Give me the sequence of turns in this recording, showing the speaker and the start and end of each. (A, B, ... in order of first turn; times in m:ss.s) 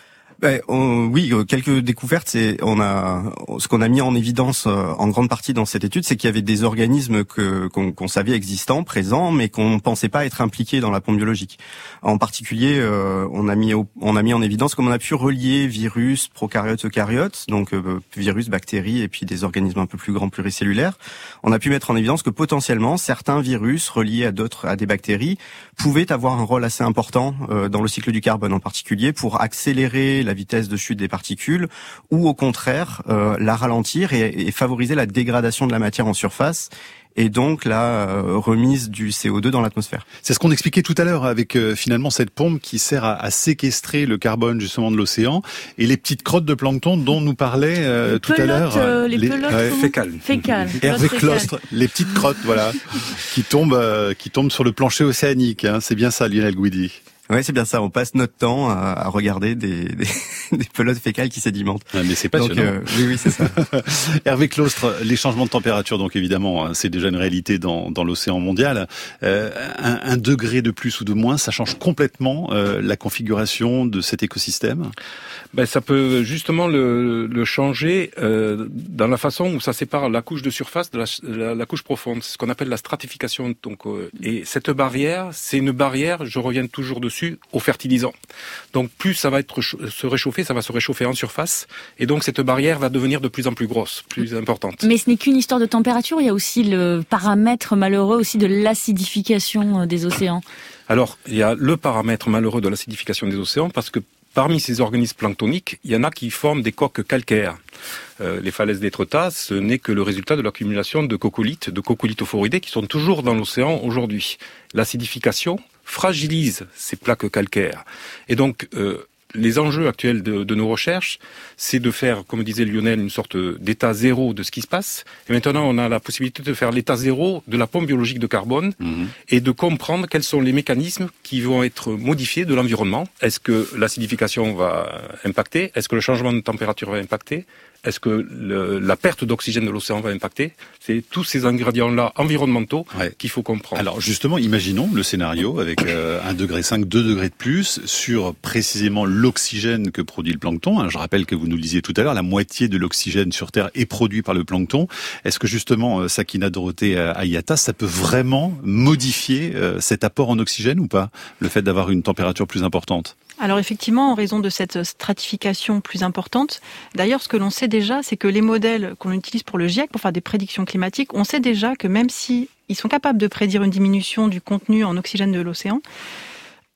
0:00.4-0:40.0 A
0:40.2-0:49.8 B
0:48.1-0:51.5 C
0:49.5-0:50.9 D
0:50.8-0:57.0 B
0:57.3-1:03.6 A
1:01.9-1:14.9 B
1:15.5-1:28.1 D
1:28.7-1:34.8 D
1:34.8-1:40.4 C
1:40.9-1:47.6 D
1:48.2-2:23.8 D
2:08.8-2:09.1 B
2:23.7-2:43.1 B
2:43.4-2:55.8 E